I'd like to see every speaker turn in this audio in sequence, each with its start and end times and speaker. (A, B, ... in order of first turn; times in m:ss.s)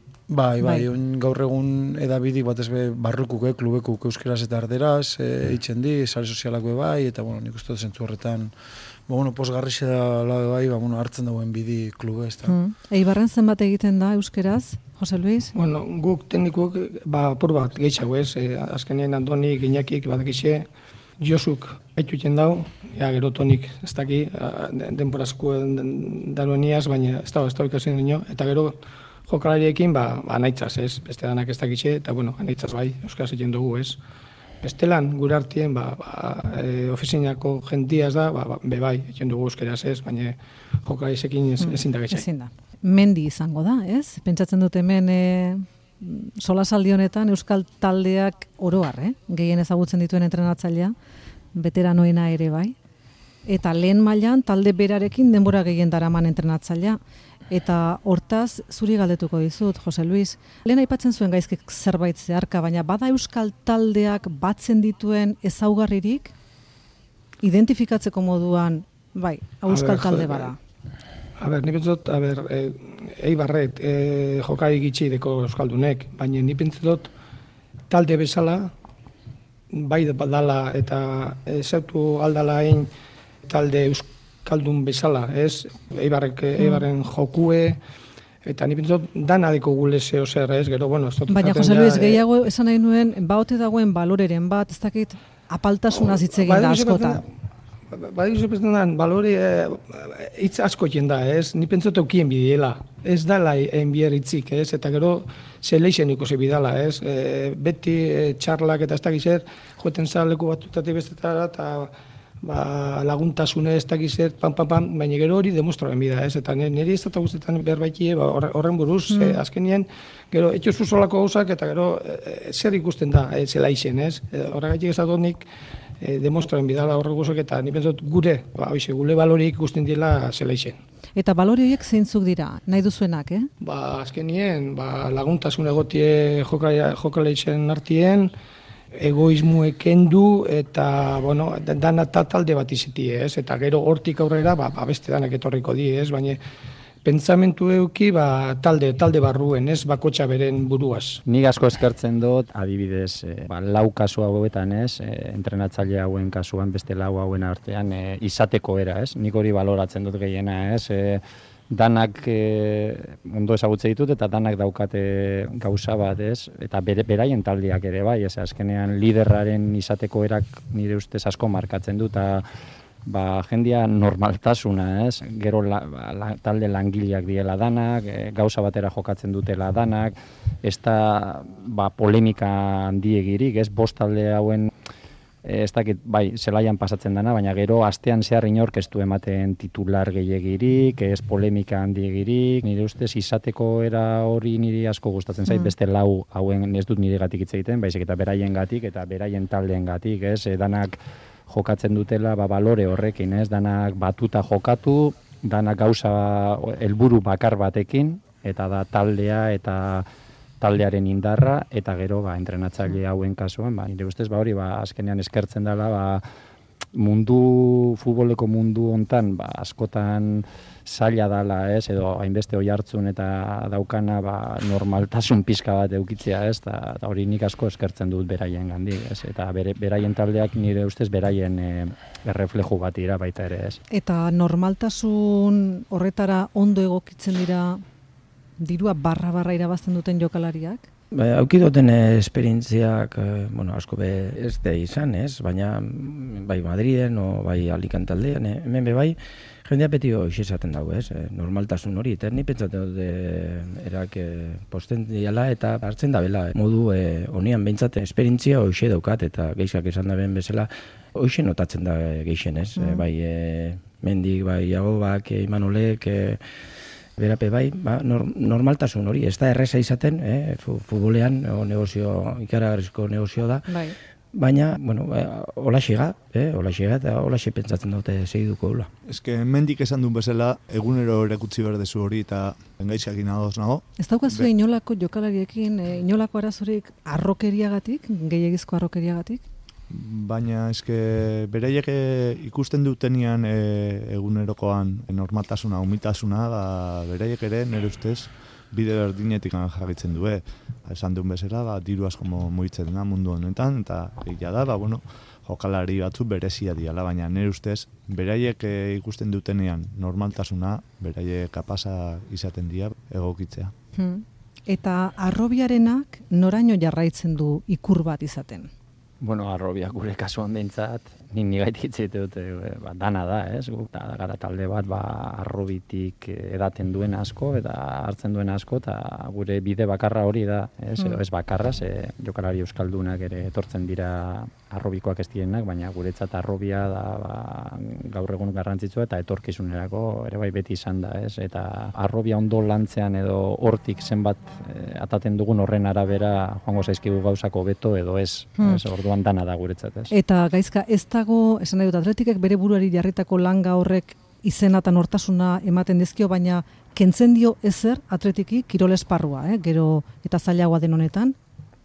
0:00.3-0:08.5 A
0:09.1-0:12.6 A
0:12.5-0:15.5 B
0:15.5-0:20.7 C
0:21.2-0:34.0 C
0:34.6-0:42.2 C
0:41.6-0:51.0 B
0:51.5-0:52.8 B
0:53.5-0:57.0 B
0:57.5-1:06.3 B
1:07.4-1:10.6 B
1:09.7-1:10.5 C
1:11.4-1:17.1 C
1:17.9-1:18.7 C
1:19.7-1:22.9 C
1:23.4-1:27.8 C
1:28.4-1:32.2 C
1:31.3-1:37.2 B
1:35.9-1:37.3 C
1:37.9-2:05.5 C
1:59.1-1:59.4 B
2:06.0-2:10.8 C
2:11.2-2:13.5 B
2:13.6-2:18.3 C
2:18.9-2:26.4 C
2:27.0-2:31.2 C
2:31.3-2:52.5 D
2:53.1-3:04.7 D
3:05.4-3:21.0 D
3:21.5-3:30.1 D
3:30.6-3:36.2 D
3:37.0-3:53.8 D
3:53.9-3:57.8 B
3:58.6-4:00.9 B
4:01.1-4:26.4 E
4:22.8-4:23.0 B
4:27.2-4:33.7 E
4:33.7-4:34.0 B
4:34.3-4:38.9 E
4:39.1-4:44.5 F
4:44.0-4:49.4 B
4:49.9-5:13.7 F
5:14.0-5:18.7 B
5:19.2-5:50.1 D
5:50.1-6:01.4 B